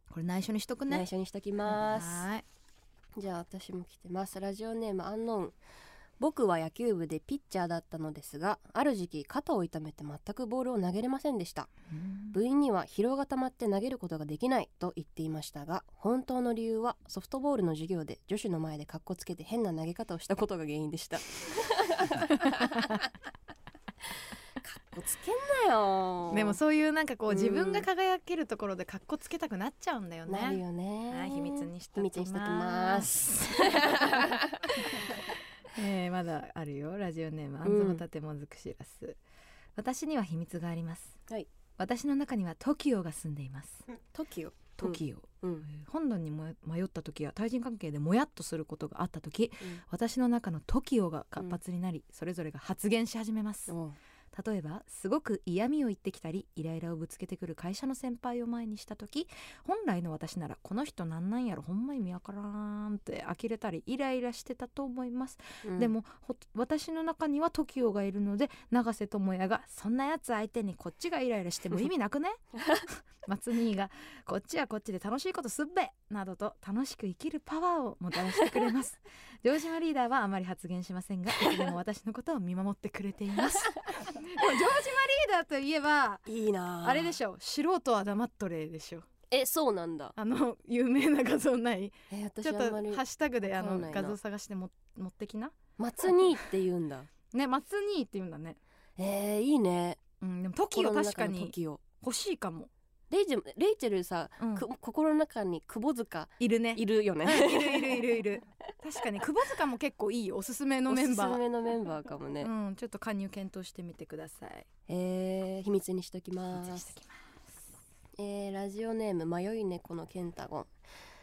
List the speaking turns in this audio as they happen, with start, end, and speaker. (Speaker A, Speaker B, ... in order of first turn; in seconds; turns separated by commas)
Speaker A: 0.1-1.1, Speaker B: 0.9-2.3, Speaker A: 1.7-2.4, Speaker B: 3.1-5.6, Speaker B: 6.2-11.7, Speaker A: 11.9-12.4, Speaker B: 12.3-23.1, Speaker B: 24.1-26.6, Speaker A: 26.3-34.3, Speaker B: 27.3-27.9, Speaker B: 30.3-34.8, Speaker A: 34.8-39.2, Speaker B: 37.6-38.0, Speaker A: 39.8-41.2, Speaker A: 41.8-43.9, Speaker B: 44.1-45.7, Speaker A: 44.8-53.8, Speaker B: 53.7-54.0, Speaker A: 54.3-86.3, Speaker B: 65.6-65.9, Speaker B: 86.3-87.2, Speaker A: 86.8-89.1, Speaker B: 89.3-90.2, Speaker A: 90.2-95.6, Speaker B: 92.1-94.2, Speaker B: 95.8-97.1, Speaker A: 97.3-98.6, Speaker B: 99.0-100.0, Speaker A: 100.2-102.7, Speaker B: 100.7-101.8, Speaker B: 103.1-108.2, Speaker A: 104.4-104.7, Speaker A: 106.4-111.4, Speaker B: 110.9-112.5, Speaker A: 112.4-114.7, Speaker B: 114.9-116.9, Speaker A: 116.5-117.2, Speaker B: 118.2-120.7